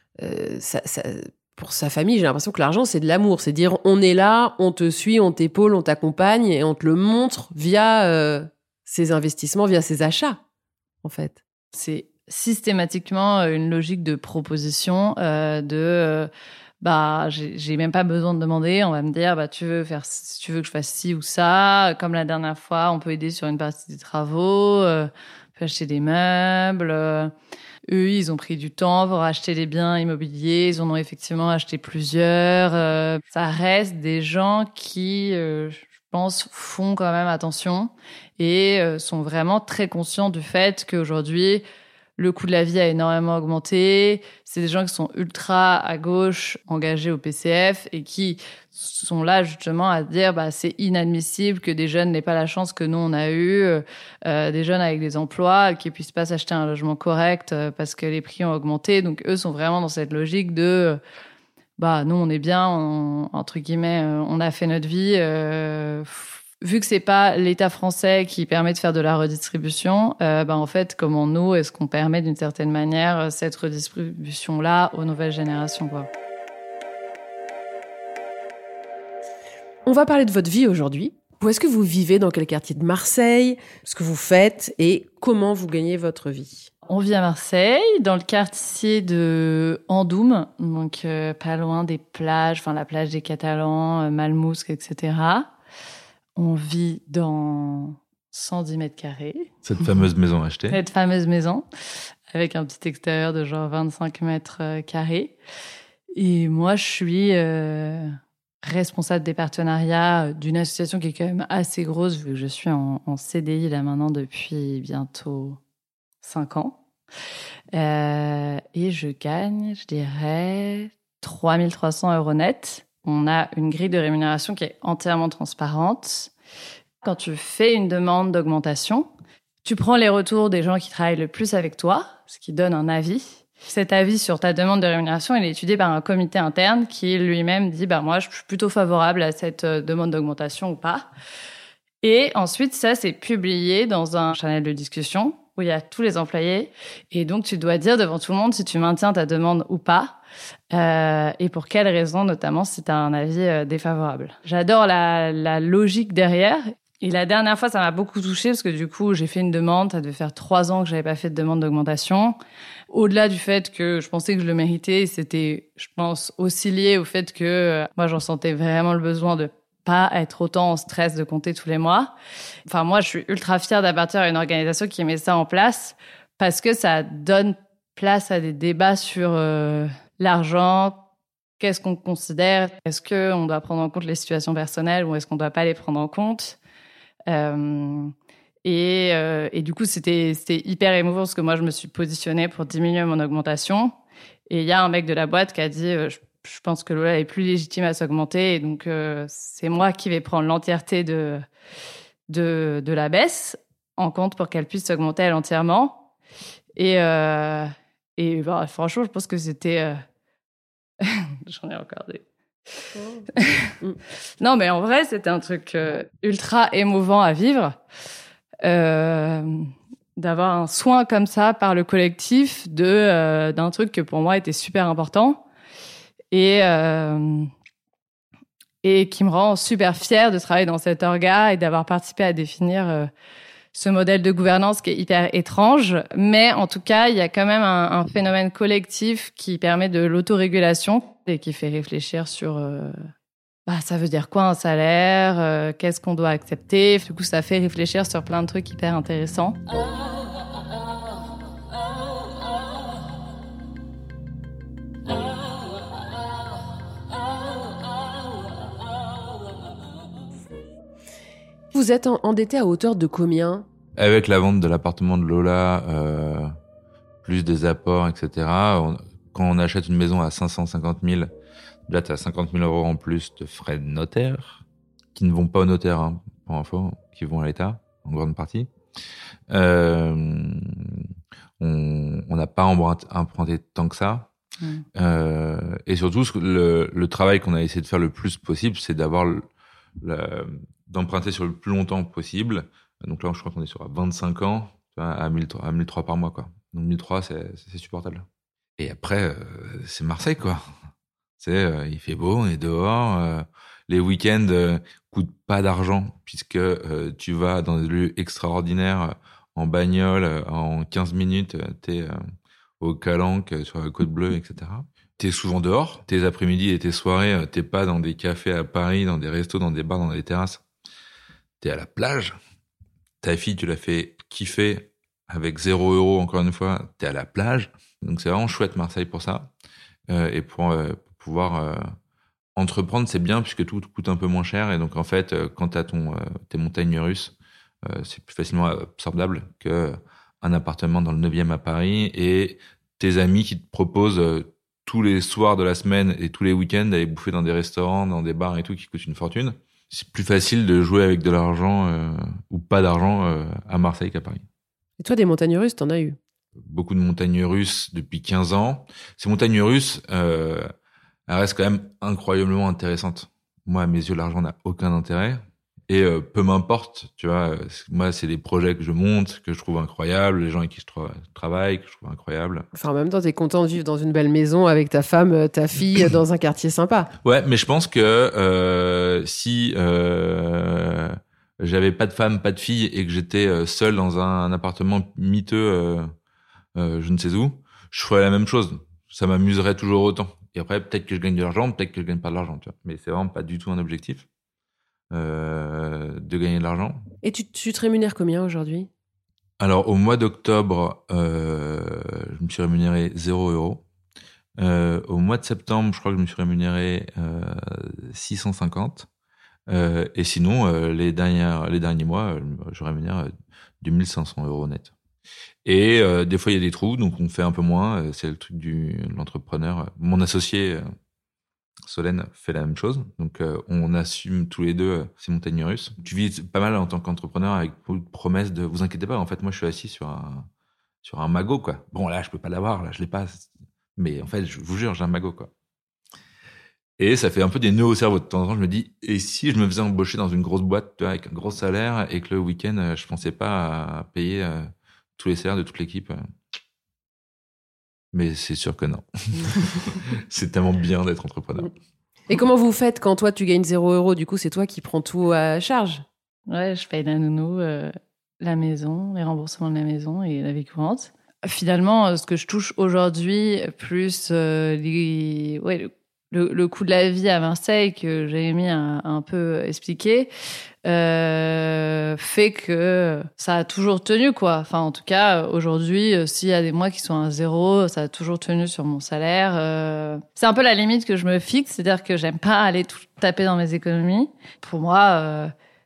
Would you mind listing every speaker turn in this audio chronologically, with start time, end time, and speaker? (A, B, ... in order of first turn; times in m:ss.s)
0:00.2-0:10.4 A
0:11.0-0:11.4 A
0:11.7-0:16.3 B
0:16.8-0:27.3 B
0:27.9-0:41.6 B
0:42.2-1:01.0 B
1:01.8-1:16.1 B
1:19.8-1:26.7 A
1:26.9-1:35.5 B
1:36.4-1:39.5 B
1:39.6-1:40.8 C
1:40.7-1:41.6 B
1:42.3-1:45.4 B
1:46.1-1:55.6 B
1:56.2-1:56.8 B
1:57.7-2:06.3 B
2:07.0-2:09.1 B
2:09.6-2:21.1 B
2:22.0-2:30.2 B
2:30.7-2:42.4 B
2:42.9-2:52.1 B
2:52.6-3:01.0 B
3:01.6-3:06.6 B
3:07.3-3:08.1 B
3:08.6-3:13.9 B
3:14.5-3:21.4 B
3:22.3-3:26.0 B
3:26.8-3:30.0 B
3:31.0-3:32.2 B
3:32.9-3:33.2 A
3:33.4-3:33.7 B
3:34.4-3:37.8 B
3:38.6-3:45.4 B
3:46.3-3:47.5 B
3:48.8-3:53.1 B
3:53.7-4:03.0 B
4:03.7-4:09.6 B
4:21.7-4:23.6 A
4:24.0-4:26.5 C
4:27.2-4:31.3 C
4:31.9-4:34.6 C
4:35.1-4:38.7 C
4:39.5-4:41.1 C
4:41.6-4:44.3 C
4:44.9-4:49.4 C
4:50.0-4:58.2 C
4:58.8-5:00.6 C
5:01.4-5:12.2 C
5:12.8-5:20.6 C
5:21.6-5:22.4 C
5:23.2-5:29.5 C
5:30.1-5:31.8 C
5:32.6-5:54.4 C
5:55.0-5:56.2 A
5:56.6-6:00.7 C
6:01.3-6:12.6 C
6:12.7-6:17.1 A
6:17.2-6:26.1 C
6:26.8-6:34.2 C
6:35.1-6:37.0 C
6:37.2-6:38.9 A
6:39.6-6:43.8 C
6:44.6-6:49.1 C
6:49.7-6:53.3 C
6:53.8-6:54.9 C
6:55.6-7:00.8 C
7:01.8-7:10.5 C
7:11.0-7:15.5 C
7:17.0-7:26.2 C
7:28.1-7:31.7 C
7:32.3-7:36.0 A
7:36.5-7:50.3 B
7:50.8-8:05.5 B